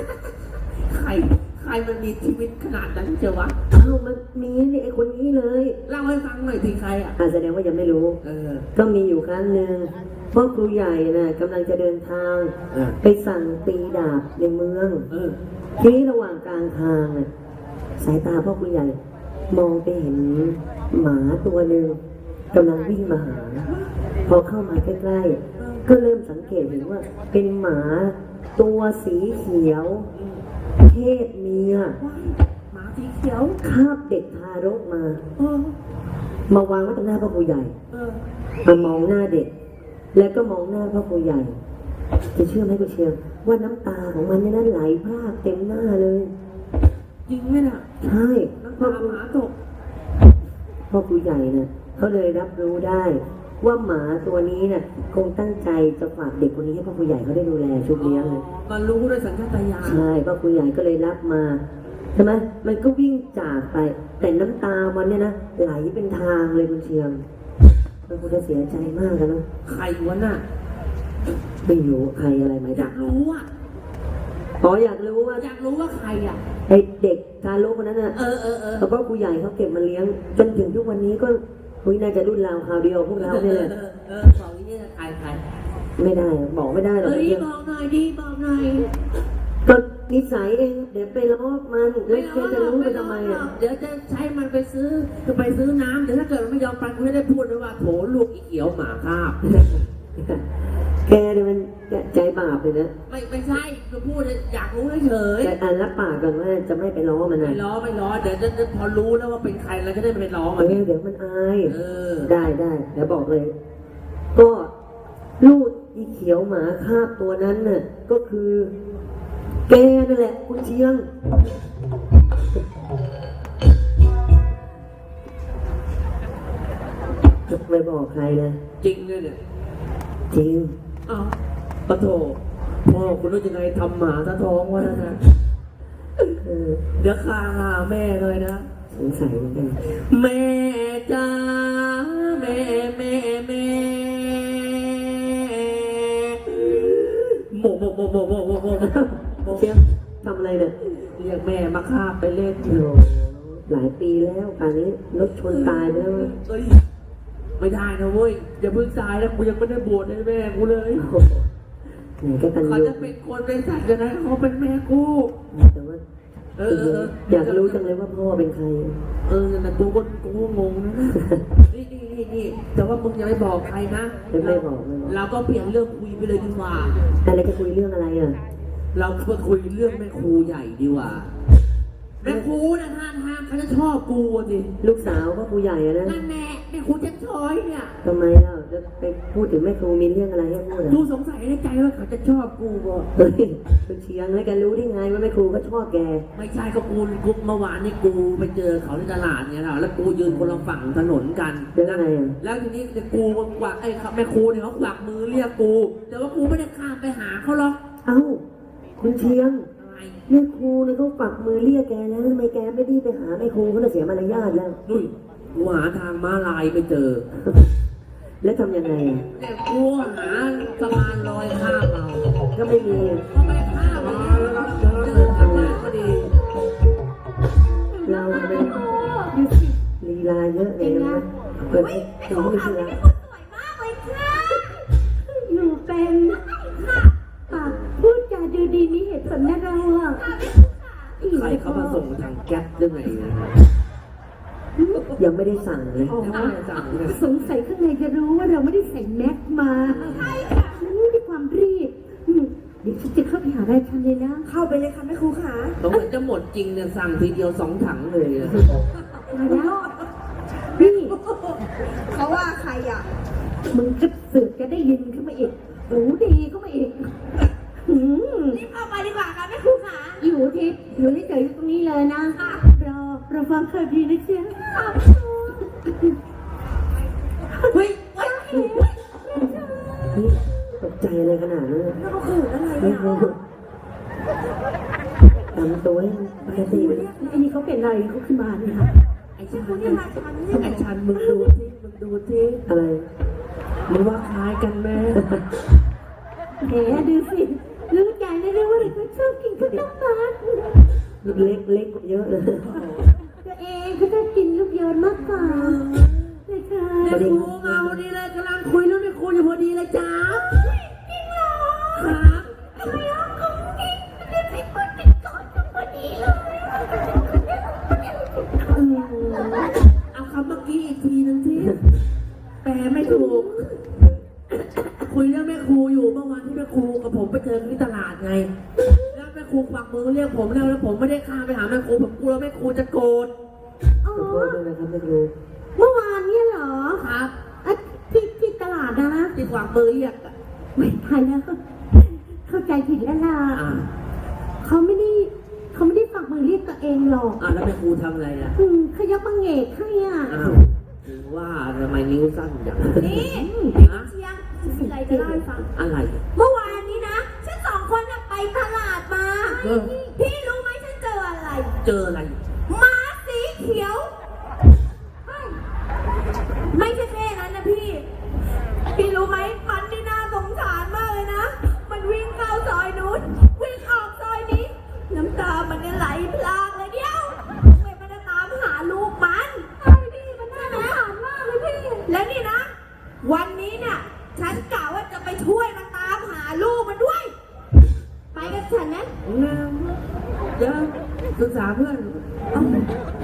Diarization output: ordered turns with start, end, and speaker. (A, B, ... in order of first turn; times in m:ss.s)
0:00.9-0:03.6 A
0:03.7-0:05.8 B
0:05.9-0:07.2 A
0:07.2-0:08.2 B
0:08.2-0:08.7 A
0:08.7-0:15.1 B
0:12.7-0:13.0 A
0:15.1-0:15.4 A
0:15.8-0:17.3 B
0:18.0-0:19.0 B
0:19.5-0:22.0 B
0:22.5-0:23.7 B
0:24.2-0:30.1 B
0:25.6-0:25.8 A
0:30.1-0:30.4 A
0:30.8-0:32.0 B
0:32.0-0:33.6 A
0:33.6-0:35.2 B
0:35.4-0:35.8 A
0:36.5-0:37.7 B
0:37.9-0:38.2 A
0:38.6-0:39.5 B
0:40.1-0:41.6 B
0:42.3-0:46.3 B
0:47.2-0:47.9 A
0:48.0-0:49.2 B
0:48.6-0:49.5 A
0:50.9-0:58.4 B
0:57.9-1:00.0 A
0:59.8-1:01.6 B
1:02.2-1:07.2 B
1:08.1-1:09.4 B
1:09.6-1:10.4 A
1:11.6-1:12.9 B
1:12.7-1:13.5 A
1:14.6-1:15.4 B
1:15.4-1:16.4 A
1:16.7-1:18.2 B
1:18.1-1:18.9 A
1:18.8-1:23.7 B
1:23.1-1:25.4 A
1:26.0-1:27.4 B
1:27.0-1:28.9 A
1:29.6-1:33.4 B
1:32.1-1:39.8 A
1:39.4-1:40.4 B
1:41.0-1:42.9 B
1:43.1-1:45.5 A
1:45.4-1:47.6 B
1:47.4-1:50.8 A
1:50.6-1:53.5 B
1:51.7-1:52.3 A
1:54.3-1:54.7 B
1:55.4-1:58.7 B
1:59.7-2:01.0 B
2:07.5-2:08.6 B
2:08.8-2:09.4 A
2:10.3-2:10.7 B
2:11.0-2:11.3 A
2:11.9-2:15.2 A
2:16.4-2:16.8 B
2:17.0-2:18.7 A
2:18.9-2:19.8 B
2:19.8-2:29.7 A
2:28.8-2:30.8 B
2:30.9-2:32.8 A
2:32.6-2:36.3 B
2:35.4-2:36.8 A
2:37.6-2:41.1 A
2:40.9-2:41.5 B
2:42.2-2:43.1 B
2:42.6-2:45.3 A
2:45.5-2:46.0 B
2:46.6-2:47.8 A
2:46.6-2:49.0 B
2:49.2-2:57.0 A
2:51.1-2:51.4 B
2:54.3-2:55.2 B
2:57.2-2:58.4 B
2:58.9-3:01.3 A
3:02.2-3:04.7 A
3:04.8-3:06.2 B
3:06.0-3:08.0 A
3:08.0-3:11.0 B
3:10.9-3:13.1 A
3:13.2-3:16.2 B
3:16.3-3:27.8 A
3:20.2-3:20.7 B
3:21.7-3:22.4 B
3:28.0-3:28.4 B
3:29.0-3:29.7 B
3:29.8-3:30.2 A
3:30.3-3:34.8 B
3:34.8-3:37.2 A
3:37.4-3:37.7 B
3:38.4-3:39.2 B
3:39.3-3:42.3 A
3:42.5-3:43.2 B
3:43.2-3:46.3 A
3:45.2-3:45.8 B
3:47.9-3:49.8 C
3:48.0-3:49.0 B
3:50.0-3:53.0 B
3:50.8-3:51.2 C
3:51.6-3:51.9 A
3:51.9-3:54.8 D
3:54.3-3:56.9 C
3:56.8-3:57.1 D
3:57.5-4:00.3 C
3:57.5-3:58.0 A
4:00.2-4:01.1 D
4:01.2-4:02.0 C
4:01.3-4:03.6 A
4:04.8-4:05.1 C
4:05.2-4:06.4 B
4:06.0-4:14.5 C
4:06.2-4:07.2 A
4:09.8-4:10.4 A
4:10.0-4:10.8 D
4:14.4-4:15.8 D
4:15.8-4:18.8 A
4:19.2-4:20.1 D
4:19.3-4:19.9 C
4:20.7-4:23.1 D
4:20.8-4:21.2 C
4:23.7-4:27.1 C
4:27.8-4:28.6 C
4:28.5-4:30.2 D
4:30.2-4:36.2 C
4:32.4-4:32.6 D
4:34.7-4:35.0 D
4:37.7-4:38.4 D
4:38.2-4:40.1 C
4:40.1-4:42.0 B
4:42.0-4:43.3 D
4:42.8-4:43.4 B
4:45.5-4:47.0 B
4:46.5-4:47.1 D
4:46.6-4:48.9 C
4:49.4-4:52.6 A
4:49.5-4:50.8 D
4:51.2-4:51.5 C
4:52.7-4:53.0 B
4:53.9-4:55.2 A
4:55.1-4:55.4 B
4:56.6-5:00.9 C
5:01.2-5:02.7 B
5:01.2-5:01.5 A
5:02.6-5:03.1 A
5:03.4-5:05.8 C
5:05.4-5:06.4 A
5:06.4-5:07.2 C
5:07.0-5:10.6 A
5:07.1-5:08.0 B
5:10.5-5:19.7 C
5:11.9-5:12.5 A
5:20.1-5:21.8 A
5:22.6-5:23.7 A
5:23.0-5:23.8 C
5:24.8-5:28.5 A
5:28.8-5:29.2 C
5:29.1-5:33.3 A
5:34.0-5:34.6 C
5:34.1-5:35.3 B
5:35.8-5:37.1 C
5:37.0-5:37.3 A
5:37.6-5:39.4 C
5:39.3-5:40.3 A
5:40.8-5:43.6 C
5:43.5-5:43.9 A
5:44.6-5:47.4 C
5:47.4-5:48.6 A
5:48.6-5:50.4 C
5:50.3-5:53.3 A
5:53.0-5:55.7 D
5:53.0-5:53.8 C
5:53.8-5:54.1 A
5:54.6-5:55.4 C
5:55.7-5:56.2 A
5:56.3-6:01.7 D
5:56.6-5:57.0 C
5:59.6-5:59.9 A
6:01.8-6:02.4 A
6:02.7-6:04.1 D
6:06.6-6:08.1 D
6:08.9-6:19.7 D
6:19.8-6:22.1 C
6:20.7-6:21.0 D
6:22.0-6:27.3 D
6:28.3-6:29.1 D
6:29.2-6:30.0 A
6:30.6-6:32.2 A
6:32.5-6:32.8 D